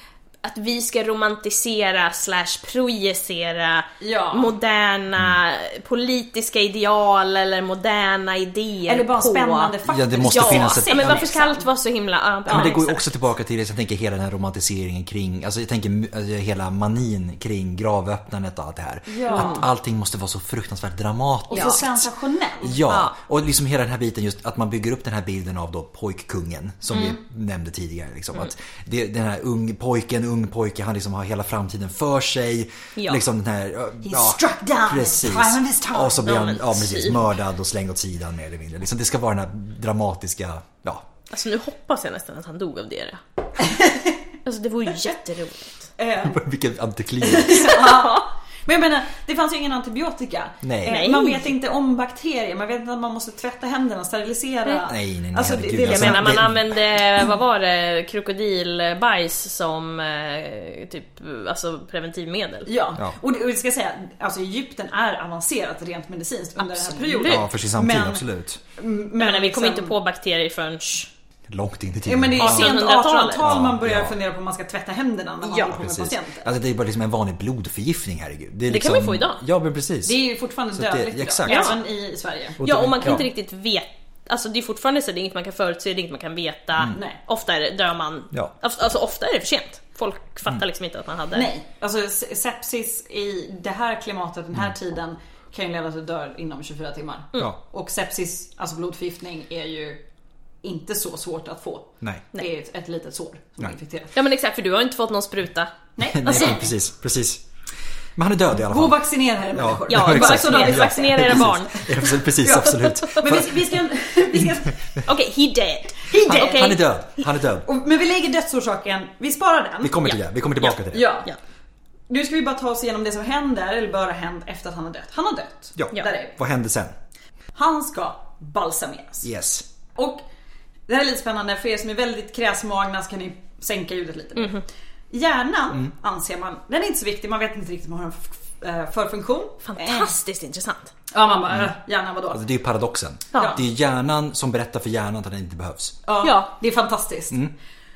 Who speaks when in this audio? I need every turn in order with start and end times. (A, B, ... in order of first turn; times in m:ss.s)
0:00.4-0:13.0 A
0:04.0-0:04.5 B
0:08.9-0:11.7 B
0:09.9-0:11.3 C
0:12.5-0:12.8 B
0:12.5-0:22.1 C
0:19.1-0:19.7 B
0:19.3-0:19.6 A
0:21.5-0:22.8 B
0:21.5-0:21.8 A
0:22.6-0:41.0 C
0:22.9-0:23.1 A
0:34.0-0:36.4 B
0:36.2-0:37.2 A
0:41.3-0:43.2 A
0:43.6-0:44.2 B
0:44.4-0:45.9 A
0:46.0-0:46.4 B
0:46.3-0:47.8 C
0:47.2-0:56.4 B
0:47.8-0:48.2 A
0:50.6-0:51.0 C
0:50.8-0:51.5 A
0:54.9-0:56.6 C
0:55.8-1:02.7 A
1:02.7-1:08.2 B
1:06.7-1:07.5 A
1:07.2-1:08.6 C
1:08.8-1:10.0 B
1:09.2-1:11.1 A
1:11.5-1:12.8 C
1:12.0-1:16.5 B
1:12.4-1:13.5 A
1:13.4-1:14.2 C
1:15.4-1:15.8 A
1:15.7-1:20.2 C
1:18.7-1:19.4 A
1:20.0-1:23.1 B
1:20.7-1:21.8 C
1:21.5-1:21.8 A
1:22.6-1:23.2 C
1:22.6-1:31.5 A
1:26.9-1:27.2 B
1:31.3-1:40.0 B
1:40.6-1:44.2 B
1:44.1-1:45.7 A
1:46.0-1:46.7 B
1:46.1-1:47.4 C
1:46.3-1:46.6 A
1:48.2-1:49.0 C
1:48.6-1:51.6 B
1:49.5-1:53.6 C
1:49.9-1:53.4 A
1:52.4-1:55.0 B
1:55.0-1:56.9 A
1:56.0-1:56.8 B
1:56.3-1:57.7 C
1:57.6-2:00.1 B
1:59.8-2:01.2 C
2:00.0-2:00.8 A
2:00.9-2:01.3 B
2:02.1-2:06.4 B
2:05.8-2:06.9 C
2:07.5-2:09.3 B
2:09.2-2:09.6 C
2:10.0-2:10.2 B
2:10.9-2:20.1 B
2:19.6-2:20.9 A
2:21.1-2:22.4 B
2:22.3-2:26.0 C
2:23.3-2:23.6 B
2:26.0-2:27.4 B
2:26.2-2:26.5 A